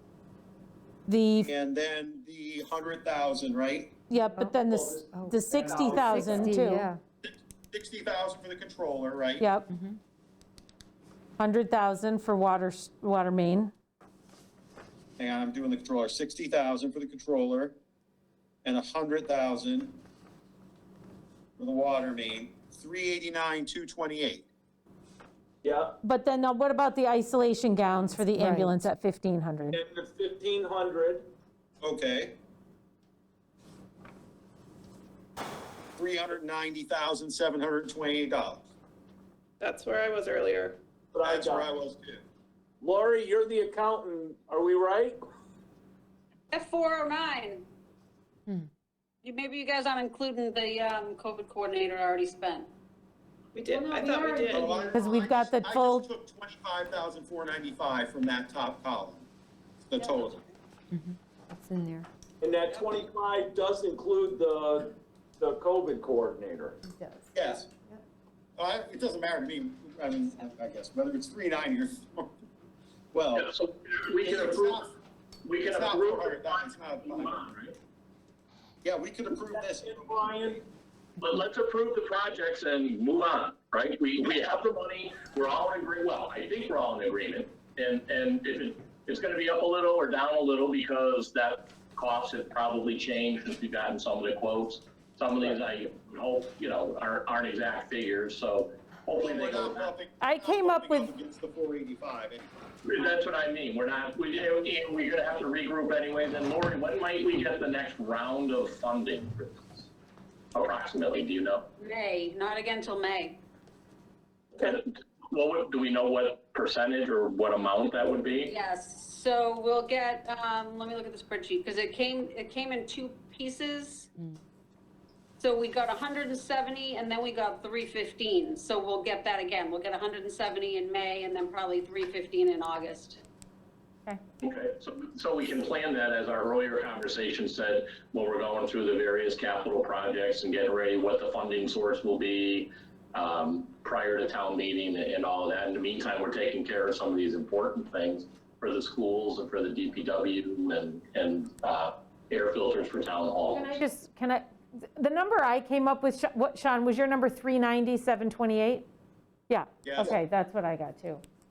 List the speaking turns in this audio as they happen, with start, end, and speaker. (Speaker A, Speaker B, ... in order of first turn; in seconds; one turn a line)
Speaker A: 1.1-1.5
Speaker B: 1.4-3.9
Speaker A: 4.1-6.9
Speaker C: 4.2-4.5
Speaker D: 4.6-6.6
Speaker C: 5.1-5.5
Speaker B: 6.0-6.4
Speaker C: 6.0-7.0
Speaker B: 7.2-9.5
Speaker A: 9.4-9.7
Speaker C: 9.7-10.0
Speaker A: 11.4-13.7
Speaker B: 15.2-17.8
Speaker B: 18.6-20.0
Speaker B: 21.6-24.5
Speaker D: 25.6-25.9
Speaker A: 26.0-29.8
Speaker C: 28.4-28.7
Speaker D: 29.7-31.2
Speaker B: 31.8-32.3
Speaker B: 36.0-38.7
Speaker E: 39.6-40.8
Speaker D: 41.1-41.7
Speaker B: 41.2-42.2
Speaker D: 42.8-45.2
Speaker F: 46.5-47.6
Speaker F: 49.2-52.7
Speaker E: 53.5-54.8
Speaker F: 54.0-55.0
Speaker B: 54.5-59.3
Speaker A: 54.9-56.1
Speaker B: 59.8-60.4
Speaker C: 60.9-62.1
Speaker D: 62.4-66.8
Speaker C: 66.8-68.0
Speaker B: 67.3-67.7
Speaker B: 68.6-72.3
Speaker B: 73.1-73.5
Speaker G: 73.3-74.8
Speaker B: 74.2-74.9
Speaker G: 75.4-77.8
Speaker B: 75.6-77.3
Speaker B: 78.8-80.6
Speaker D: 79.3-80.6
Speaker G: 81.2-99.9
Speaker B: 99.1-102.5
Speaker A: 100.2-101.1
Speaker G: 102.8-109.9
Speaker G: 110.5-111.7
Speaker F: 111.8-113.3
Speaker G: 114.6-118.5
Speaker F: 118.5-124.1
Speaker F: 125.4-133.2
Speaker G: 134.4-153.8
Speaker A: 153.5-158.9
Speaker A: 159.5-161.2
Speaker B: 159.8-160.2